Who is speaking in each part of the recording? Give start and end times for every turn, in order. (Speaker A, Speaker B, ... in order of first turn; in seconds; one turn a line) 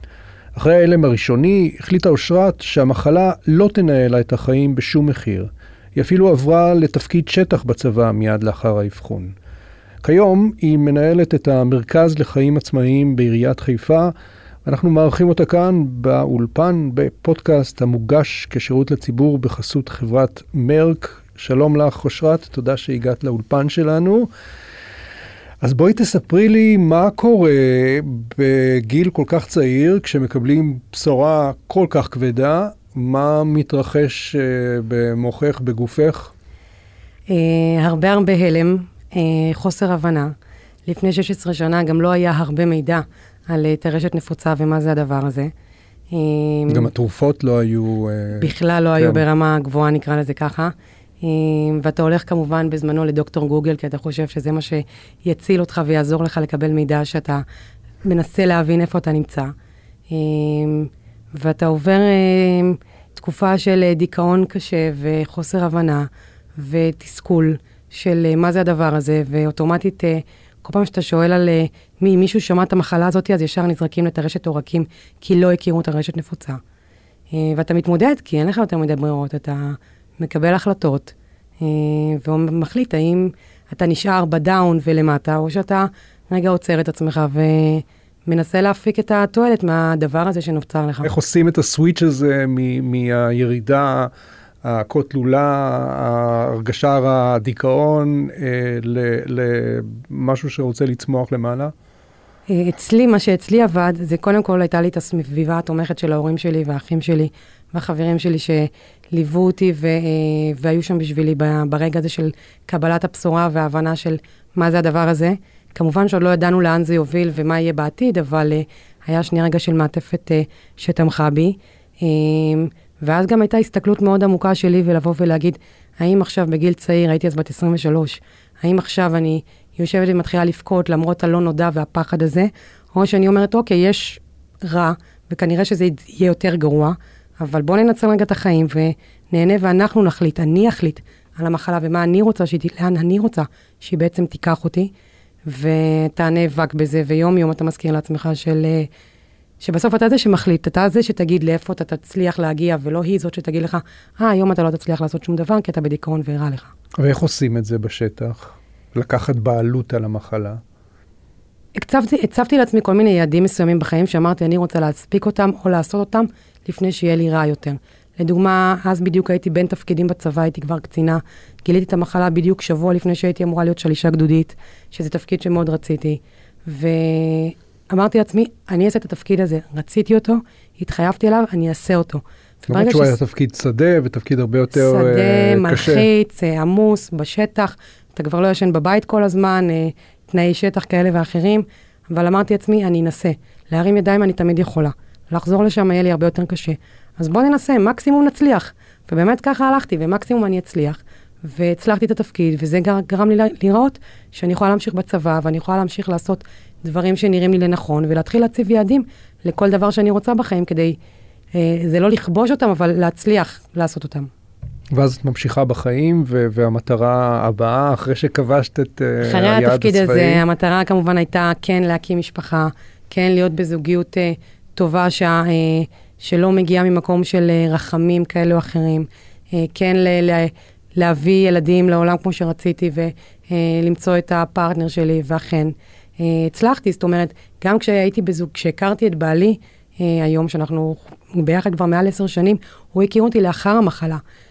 Speaker A: 0.6-9.3
Speaker A: 10.0-14.1
Speaker A: 14.7-24.3
Speaker A: 25.6-36.3
Speaker B: 37.3-40.3
Speaker B: 40.9-45.5
Speaker B: 46.1-46.9
Speaker A: 46.7-49.2
Speaker B: 48.4-57.5
Speaker B: 58.0-59.5
Speaker B: 60.1-76.6
Speaker B: 77.3-91.1
Speaker A: 91.0-94.1
Speaker A: 94.6-101.7
Speaker B: 102.5-144.9
Speaker B: 145.5-148.9
Speaker B: 149.6-156.7
Speaker A: 157.0-160.6
Speaker B: 161.8-183.2
Speaker A: 182.7-186.1
Speaker B: 184.7-211.0
Speaker B: 211.5-214.3
Speaker A: 214.9-220.4
Speaker B: 219.2-244.2